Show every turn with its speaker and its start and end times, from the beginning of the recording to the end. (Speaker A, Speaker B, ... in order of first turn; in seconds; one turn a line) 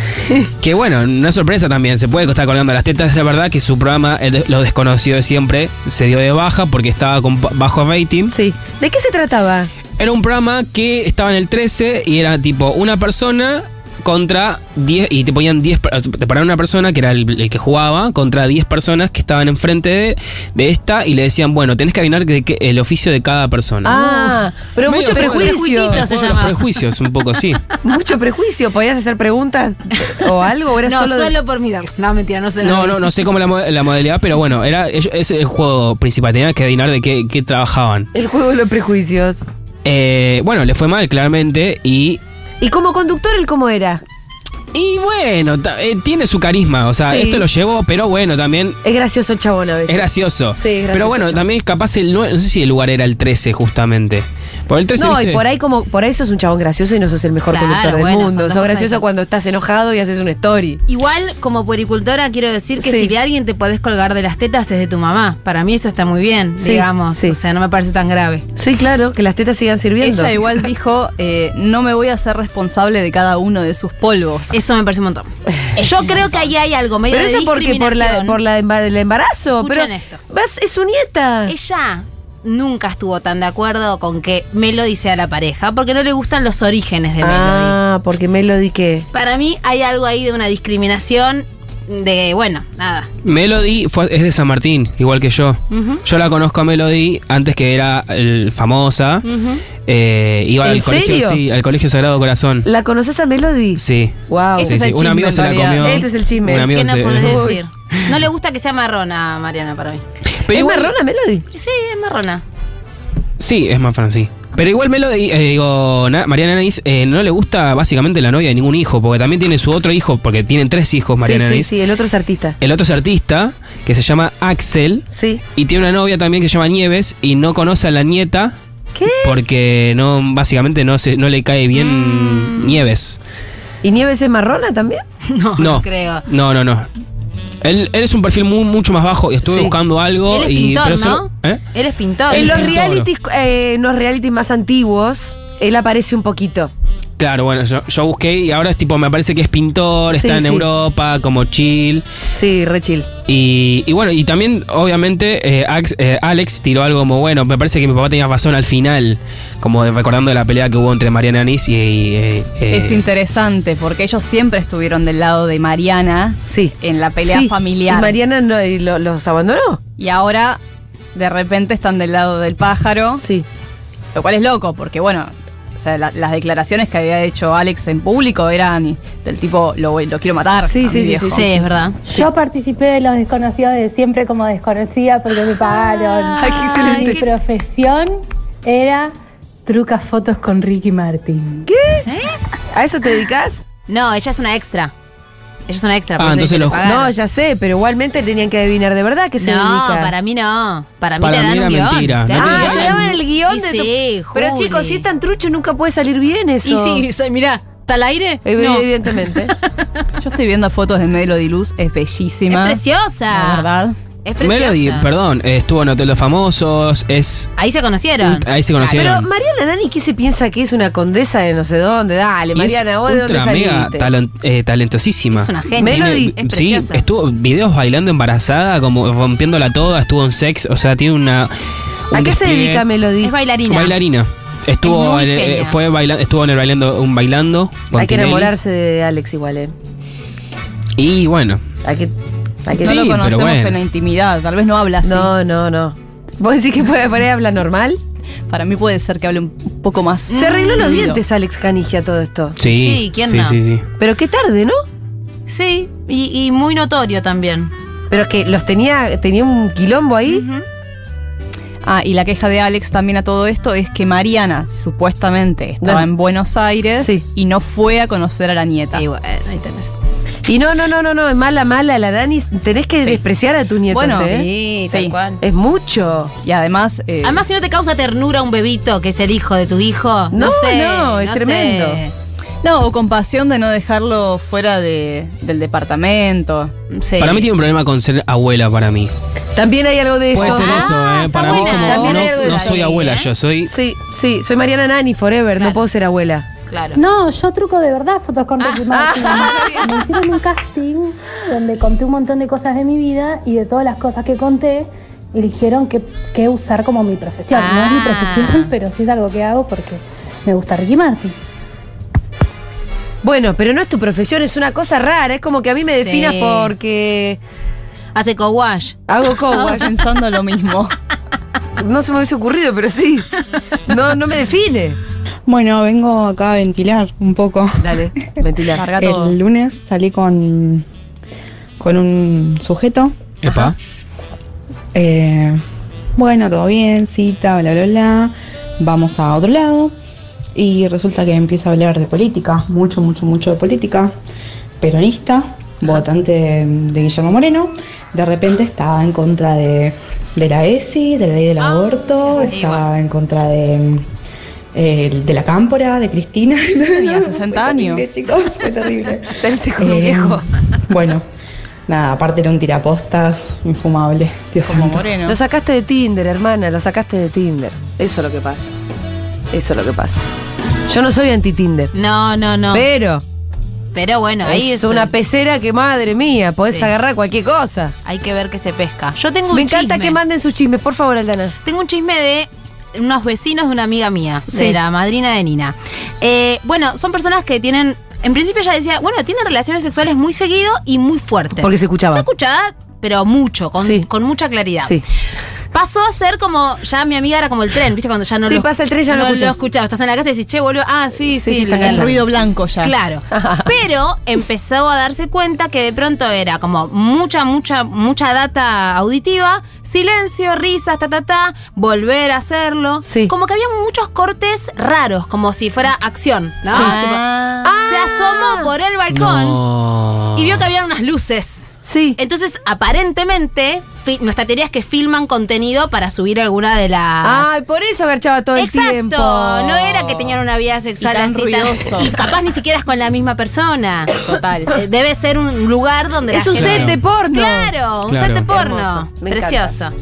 Speaker A: 0.6-8.3
Speaker B: 8.3-9.7
Speaker A: 10.0-27.6
Speaker B: 23.8-26.0
Speaker C: 25.1-26.7
Speaker B: 27.8-31.3
Speaker C: 30.8-33.0
Speaker A: 32.6-38.1
Speaker B: 38.1-39.4
Speaker A: 39.8-42.2
Speaker B: 42.6-44.0
Speaker A: 44.7-48.8
Speaker B: 47.0-47.4
Speaker B: 48.8-51.4
Speaker A: 49.9-55.4
Speaker B: 55.0-60.8
Speaker C: 57.5-59.0
Speaker C: 60.9-68.5
Speaker B: 62.8-63.1
Speaker B: 66.6-67.4
Speaker B: 68.5-70.3
Speaker D: 70.0-74.6
Speaker C: 74.5-78.4
Speaker B: 77.1-81.5
Speaker C: 79.6-80.2
Speaker C: 81.5-87.8
Speaker B: 87.2-89.0
Speaker C: 89.1-93.1
Speaker A: 93.2-99.2
Speaker C: 95.7-96.0
Speaker C: 99.2-99.6
Speaker A: 99.8-102.7
Speaker B: 100.6-101.4
Speaker B: 102.6-104.8
Speaker A: 103.8-107.6
Speaker D: 104.5-106.0
Speaker B: 105.8-107.6
Speaker C: 106.7-110.0
Speaker A: 110.4-110.9
Speaker B: 110.5-111.4
Speaker C: 111.5-112.4
Speaker A: 113.4-121.7
Speaker B: 121.2-122.5
Speaker A: 122.6-125.0
Speaker B: 125.1-125.4
Speaker A: 125.5-128.5
Speaker B: 128.9-129.4
Speaker A: 129.2-133.2
Speaker C: 131.7-132.8
Speaker B: 133.8-135.0
Speaker C: 135.3-136.2
Speaker A: 135.6-136.9
Speaker A: 137.6-141.6
Speaker B: 139.5-139.7
Speaker C: 140.3-142.7
Speaker A: 142.3-143.1
Speaker B: 142.3-146.7
Speaker A: 147.2-152.0
Speaker B: 150.1-150.7
Speaker B: 152.3-153.1
Speaker A: 153.3-163.0
Speaker D: 162.7-168.1
Speaker B: 166.4-169.8
Speaker D: 170.0-170.6
Speaker D: 171.1-173.2
Speaker B: 173.2-173.4
Speaker D: 174.1-181.4
Speaker B: 180.6-182.3
Speaker C: 181.3-182.0
Speaker E: 182.1-189.1
Speaker B: 186.3-187.3
Speaker E: 189.7-191.7
Speaker B: 191.7-192.1
Speaker C: 192.1-192.4
Speaker B: 192.7-193.6
Speaker C: 193.9-194.9
Speaker C: 195.7-197.1
Speaker A: 196.2-196.9
Speaker B: 196.8-200.1
Speaker C: 199.4-205.0
Speaker A: 201.2-203.1
Speaker B: 202.3-207.1
Speaker C: 206.6-209.8
Speaker B: 208.4-209.5
Speaker D: 210.2-214.0
Speaker C: 212.5-213.7
Speaker C: 214.2-215.1
Speaker A: 214.4-217.5
Speaker C: 217.6-218.5
Speaker A: 218.2-219.3
Speaker B: 218.8-224.1
Speaker A: 222.5-231.5
Speaker C: 225.3-227.0
Speaker B: 225.8-226.3
Speaker A: 232.1-232.8
Speaker B: 232.1-233.3
Speaker C: 233.2-233.9
Speaker A: 233.7-238.5
Speaker C: 234.8-235.8
Speaker B: 237.9-239.7
Speaker A: 241.0-241.6
Speaker B: 241.8-242.1
Speaker B: 242.7-243.1
Speaker D: 242.7-245.3
Speaker A: 242.8-243.7
Speaker B: 245.0-248.0
Speaker D: 248.5-251.2
Speaker C: 250.3-251.0
Speaker B: 250.3-252.6
Speaker A: 252.6-253.8
Speaker C: 252.6-253.6
Speaker B: 254.0-254.8
Speaker C: 255.5-257.7
Speaker B: 258.1-260.4
Speaker C: 260.2-260.6
Speaker D: 261.8-269.0
Speaker B: 265.8-266.1
Speaker B: 267.0-267.2
Speaker C: 268.9-269.9
Speaker B: 270.4-274.5
Speaker D: 273.9-274.3
Speaker C: 274.1-275.4
Speaker D: 274.9-275.1
Speaker B: 275.4-276.3
Speaker D: 276.4-277.4
Speaker C: 277.2-282.1
Speaker B: 280.3-282.0
Speaker D: 282.6-286.7
Speaker C: 286.9-287.5
Speaker A: 287.2-289.1
Speaker B: 289.6-290.9
Speaker A: 290.3-293.7
Speaker C: 290.4-293.3
Speaker B: 291.4-292.8
Speaker B: 293.7-296.4
Speaker C: 295.6-295.8
Speaker C: 296.7-297.0
Speaker E: 297.0-311.4
Speaker C: 298.6-298.9
Speaker B: 298.9-299.9
Speaker C: 307.5-308.7
Speaker B: 313.2-317.4
Speaker C: 316.0-316.7
Speaker C: 318.1-318.9
Speaker B: 319.1-319.9
Speaker D: 319.5-320.9
Speaker B: 321.8-323.3
Speaker B: 323.9-325.0
Speaker F: 325.5-328.3
Speaker B: 327.8-328.8
Speaker D: 328.8-329.4
Speaker F: 329.0-330.8
Speaker F: 331.8-333.1
Speaker A: 333.4-333.8
Speaker B: 333.5-333.7
Speaker F: 334.9-335.6
Speaker F: 336.2-339.9
Speaker F: 340.6-344.1
Speaker F: 344.8-354.0
Speaker C: 351.6-352.9
Speaker F: 354.7-361.3
Speaker D: 356.9-358.1
Speaker B: 359.4-360.5
Speaker F: 361.9-365.0
Speaker D: 364.6-365.4
Speaker B: 365.2-368.7
Speaker B: 369.5-370.2
Speaker B: 370.9-371.9
Speaker C: 371.9-372.9
Speaker B: 372.7-373.2
Speaker C: 373.9-375.1
Speaker B: 374.4-377.9
Speaker C: 376.7-376.9
Speaker C: 378.0-380.2
Speaker B: 379.5-381.6
Speaker C: 381.6-395.0
Speaker B: 384.5-384.8
Speaker B: 391.6-392.3
Speaker B: 393.8-394.1
Speaker C: 395.7-402.1
Speaker B: 398.4-399.6
Speaker B: 401.3-402.1
Speaker D: 401.8-402.9
Speaker C: 402.8-419.6
Speaker B: 403.3-403.7
Speaker B: 413.0-413.3
Speaker B: 416.6-418.7
Speaker A: 419.1-420.7
Speaker C: 420.4-427.5
Speaker B: 421.8-422.2
Speaker B: 427.2-430.4
Speaker C: 428.5-434.1
Speaker D: 431.0-432.1
Speaker D: 434.2-434.7
Speaker C: 434.7-439.9
Speaker B: 436.3-437.8
Speaker A: 436.5-437.0
Speaker A: 438.1-438.5
Speaker B: 438.5-439.7